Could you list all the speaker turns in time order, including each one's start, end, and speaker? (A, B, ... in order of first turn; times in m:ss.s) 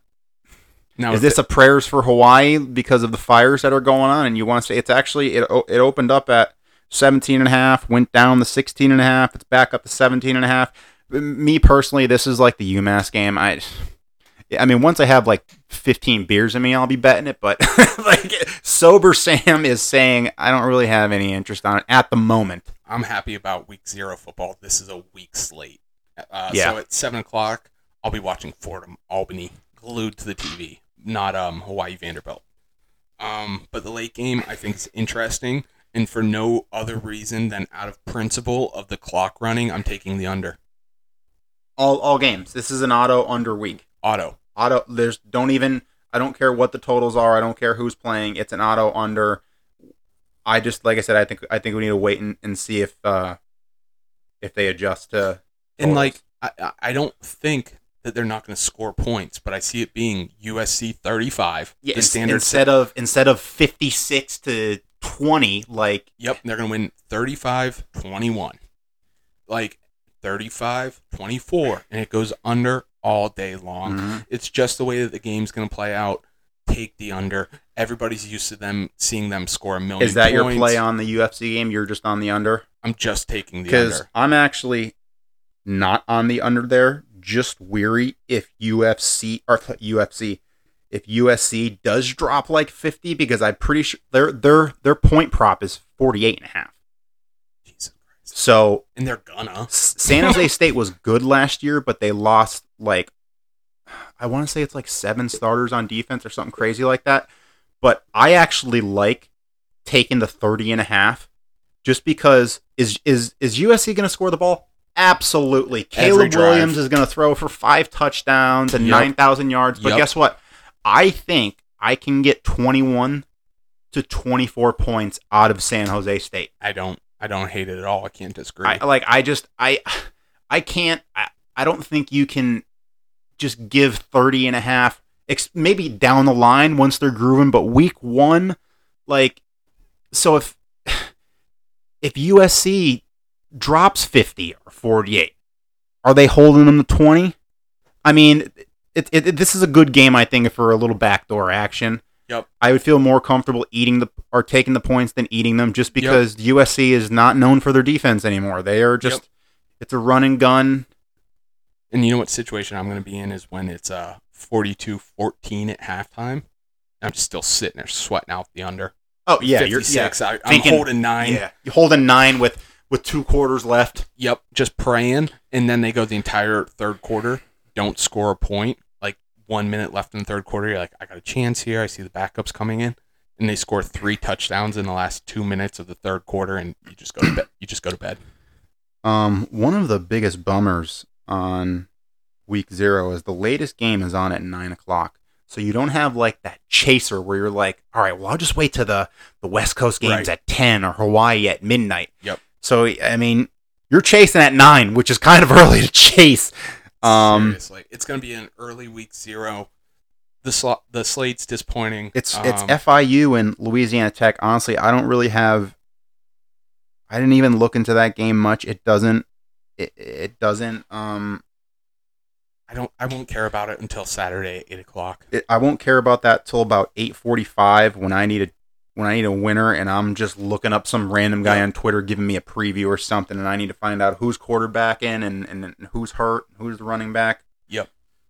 0:01.0-0:01.4 A
0:01.1-0:13.8 B
0:14.5-0:22.7 B
0:22.9-0:32.4 A
0:26.5-0:26.8 B
0:33.2-0:40.6 A
0:41.8-0:43.8 B
0:44.0-0:44.4 A
0:44.6-0:49.4 B
0:50.5-0:53.4 B
0:54.4-0:56.2 B
0:55.8-1:02.7 A
1:01.8-1:06.1 B
1:06.2-1:08.6 A
1:09.5-1:20.8 A
1:13.8-1:14.2 B
1:20.0-1:22.6 B
1:22.8-1:24.1 A
1:23.7-1:24.9 B
1:25.6-1:30.4 B
1:30.9-1:36.7 B
1:37.7-1:38.3 A
1:38.3-1:38.8 B
1:39.0-1:40.4 A
1:39.7-1:43.1 B
1:44.2-1:47.3 B
1:47.8-1:49.3 B
1:49.8-1:51.3 B
1:51.8-2:03.2 B
1:56.0-1:56.8 A
1:58.8-1:59.1 A
1:59.8-2:00.1 A
2:03.9-2:06.5 B
2:06.6-2:08.8 A
2:08.6-2:12.6 B
2:13.4-2:18.6 B
2:19.1-2:19.4 B
2:20.1-2:21.1 B
2:22.0-2:23.0 B
2:23.6-2:25.3 B
2:26.0-2:27.4 B
2:28.0-2:32.0 B
2:32.6-2:39.2 B
2:36.0-2:36.2 A
2:39.8-2:40.9 B
2:41.9-2:46.4 A
2:47.0-2:51.4 A
2:49.3-2:54.1 B
2:54.2-3:08.2 A
3:09.0-3:11.9 B
3:12.5-3:27.6 B
3:20.0-3:20.3 A
3:27.0-3:29.7 A
3:30.4-3:32.8 A
3:32.1-3:35.7 B
3:37.1-3:39.2 B
3:39.8-3:41.4 B
3:42.7-3:45.2 A
3:45.3-3:57.4 B